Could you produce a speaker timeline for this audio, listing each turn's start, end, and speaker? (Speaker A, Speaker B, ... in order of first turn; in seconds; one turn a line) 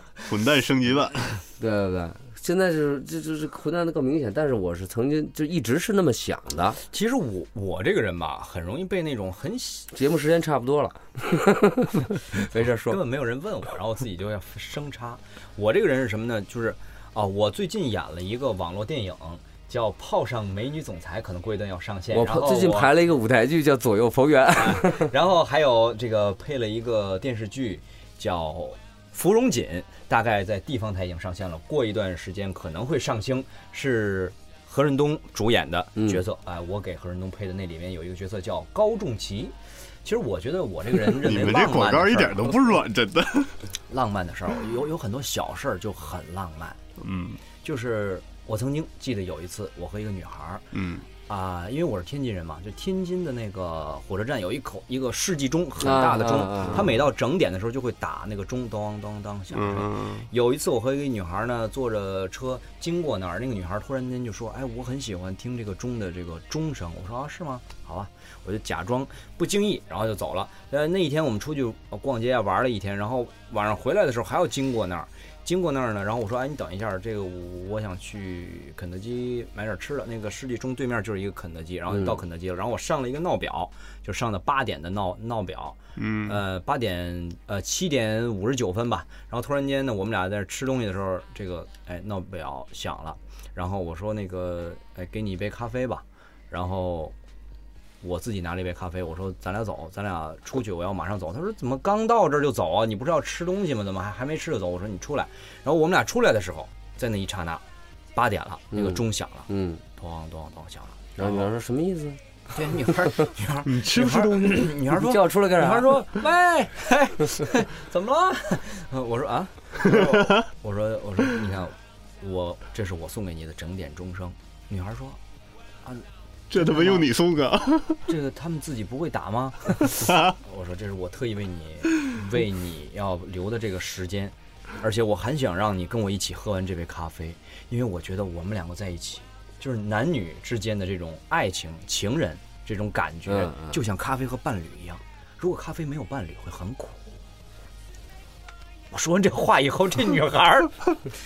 Speaker A: 0.2-1.4
Speaker B: 1.6-6.8
Speaker C: 6.9-9.9
Speaker B: 9.9-13.0
Speaker C: 12.4-22.9
Speaker B: 22.1-25.1
Speaker C: 24.5-42.6
Speaker B: 36.0-36.2
Speaker A: 41.0-43.5
Speaker C: 43.9-46.8
Speaker A: 47.0-47.4
Speaker C: 47.6-50.6
Speaker A: 50.7-51.1
Speaker C: 51.3-97.1
Speaker B: 55.8-56.9
Speaker A: 56.6-56.9
Speaker A: 59.5-60.3
Speaker A: 86.0-86.4
Speaker C: 98.0-107.6
Speaker C: 108.1-111.5
Speaker B: 108.7-109.8
Speaker B: 111.2-112.2
Speaker C: 112.5-125.2
Speaker A: 113.6-114.7
Speaker B: 114.8-116.0
Speaker A: 119.8-120.4
Speaker C: 125.8-127.1
Speaker A: 126.5-128.0
Speaker C: 128.1-147.2
Speaker A: 130.0-130.3
Speaker B: 143.3-143.8
Speaker C: 148.9-151.0